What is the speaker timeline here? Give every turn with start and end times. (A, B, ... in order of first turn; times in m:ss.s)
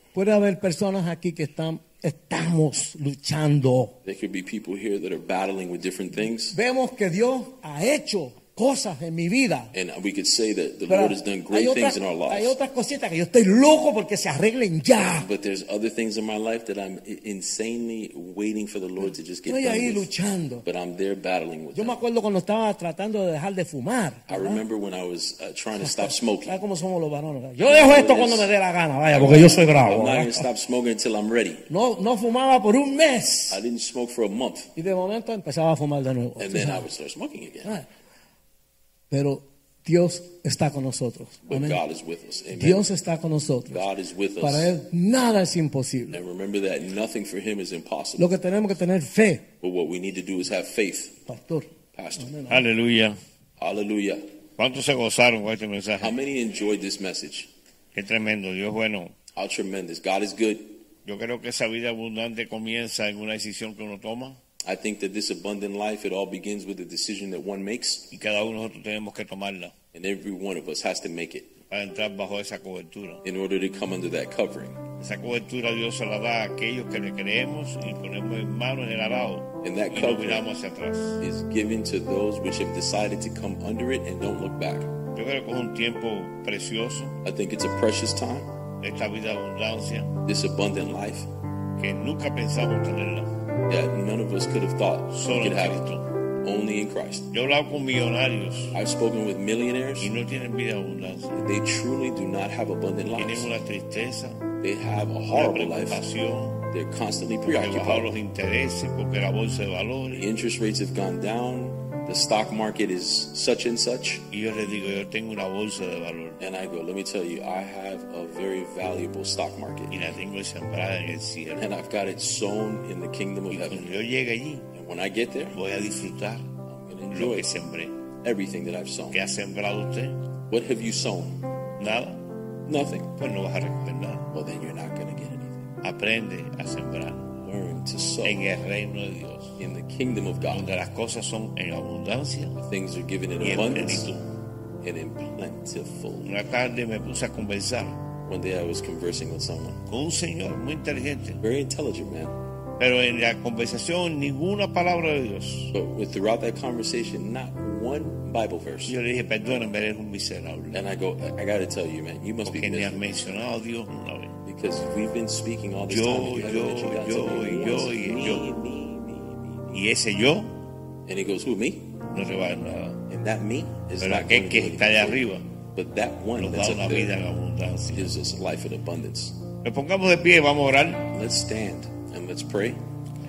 0:00.1-0:03.9 A
0:04.0-0:06.6 B
0:06.5-0:09.7 A
0:09.7-0:12.5 B
0:10.9-0:15.3 A
0:15.2-0:20.1 B
0:19.4-0:20.6 A
0:20.6-0:22.0 B
0:21.7-0:24.6 A
0:24.3-0:26.6 B
0:25.8-0:30.5 A
0:27.6-0:28.5 B
0:29.1-0:31.7 B
0:31.7-0:33.6 A
0:33.5-0:34.7 B
0:34.8-0:36.8 A
0:36.4-0:37.8 B
0:39.1-0:41.8 A
0:41.4-0:42.8 B
0:42.5-0:43.8 A
0:43.7-0:44.7 B
0:44.4-0:46.2 A
0:46.1-0:48.3 B
0:48.2-0:49.5 A
0:49.6-0:51.2 B
0:51.2-0:52.6 A
0:51.9-0:52.5 B
0:52.5-0:53.2 C
0:53.6-0:54.2 B
0:54.6-0:56.1 C
0:56.0-0:57.5 B
0:57.9-0:59.1 C
0:59.3-1:00.8 B
1:01.0-1:04.4 C
1:04.6-1:08.1 B
1:08.1-1:09.7 C
1:09.9-1:11.6 B
1:11.7-1:13.2 C
1:13.2-1:14.8 B
1:15.0-1:21.2 C
1:19.6-1:20.5 B
1:21.2-1:24.9 B
1:25.1-1:27.2 C
1:27.2-1:28.5 B
1:28.8-1:30.1 C
1:30.2-1:31.3 B
1:31.8-1:33.3 C
1:33.7-1:35.8 B
1:35.1-1:36.1 C
1:36.4-1:37.3 B
1:37.3-1:38.8 C
1:38.7-1:40.1 B
1:40.0-1:41.4 C
1:41.4-1:43.5 B
1:43.2-1:44.4 C
1:44.6-1:46.0 B
1:45.3-1:46.6 C
1:46.7-1:48.2 B
1:47.4-1:50.3 C
1:50.1-1:54.3 B
1:54.3-1:56.4 C
1:56.4-2:00.1 B
1:59.9-2:01.7 C
2:01.5-2:03.9 B
2:03.5-2:04.7 C
2:04.7-2:05.6 B
2:05.5-2:06.5 C
2:06.6-2:07.6 B
2:07.1-2:07.9 C
2:08.2-2:09.2 B
2:09.1-2:10.3 C
2:10.5-2:11.4 B
2:11.8-2:12.2 C
2:12.6-2:13.1 B
2:13.2-2:14.3 C
2:14.3-2:15.7 B
2:15.8-2:17.3 C
2:17.4-2:18.4 B
2:18.2-2:19.6 C
2:19.6-2:20.7 B
2:20.5-2:22.6 C
2:22.6-2:24.1 B
2:23.4-2:24.2 C
2:24.8-2:26.3 B
2:26.2-2:28.0 C
2:28.2-2:29.8 B
2:29.9-2:31.4 C
2:31.4-2:32.3 B
2:32.8-2:35.7 C
2:35.7-2:39.0 B
2:38.8-2:40.8 C
2:40.7-2:43.1 B
2:42.4-2:44.4 C
2:44.4-2:49.8 B
2:45.9-2:48.4 C
2:49.7-2:50.5 C
2:51.0-2:51.9 B
2:52.1-2:53.0 C
2:53.1-2:57.1 B
2:54.0-2:55.5 C
2:56.4-2:58.1 C
2:57.9-2:59.4 B
2:59.6-3:01.1 C
3:01.1-3:02.8 B